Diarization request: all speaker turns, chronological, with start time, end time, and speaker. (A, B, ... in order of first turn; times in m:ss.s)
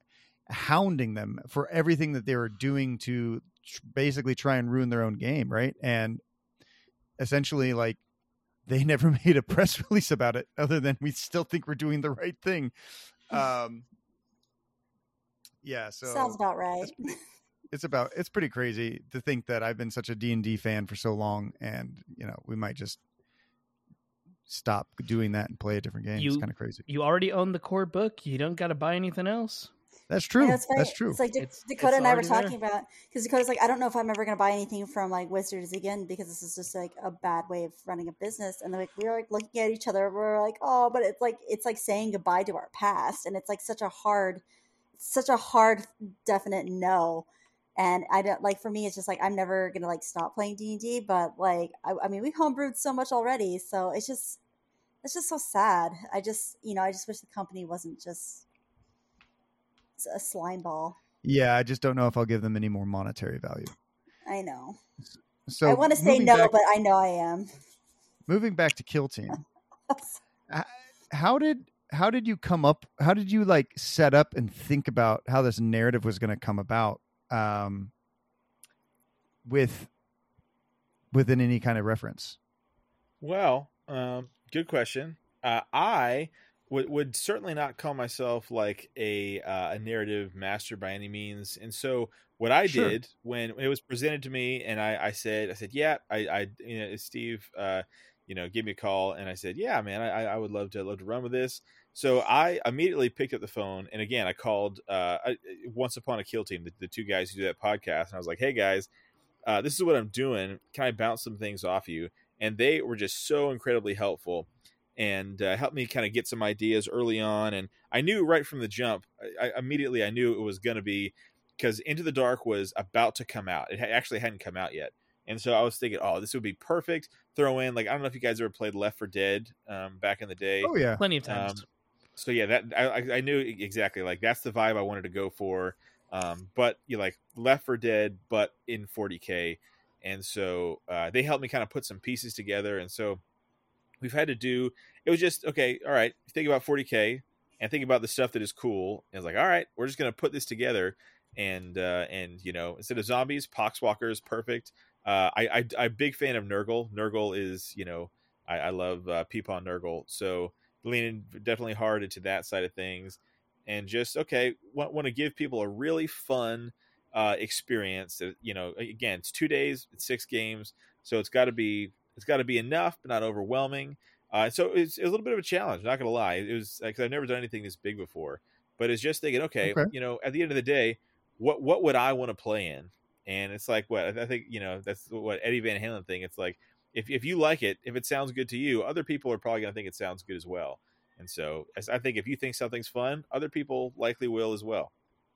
0:00.5-0:06.2 A
0:07.2-0:08.0 A
0:08.7-0:12.7 A
0:13.3-0:13.9 A
0:15.6-0:17.0 A
0:16.0-0:17.2 B
0:17.7-0:23.0 A
0:24.5-0:26.9 A
0:26.2-0:29.7 C
0:30.1-0:31.2 A
0:30.4-0:44.4 B
0:31.4-0:32.6 C
0:45.0-0:54.4 B
0:55.0-0:58.5 B
1:00.0-1:01.0 B
1:01.2-1:03.7 A
1:04.3-1:04.8 B
1:05.1-1:06.5 A
1:05.6-1:07.5 B
1:08.3-1:09.4 A
1:09.9-1:10.2 B
1:10.5-1:17.9 A
1:19.4-1:19.9 A
1:21.1-1:22.4 A
1:23.2-1:48.9 D
1:32.6-1:33.0 A
1:49.4-2:10.7 D
2:10.6-2:11.0 A
2:11.0-2:11.6 C
2:11.2-2:11.6 D
2:12.2-2:23.2 D
2:24.0-3:14.9 D
2:59.6-2:59.9 A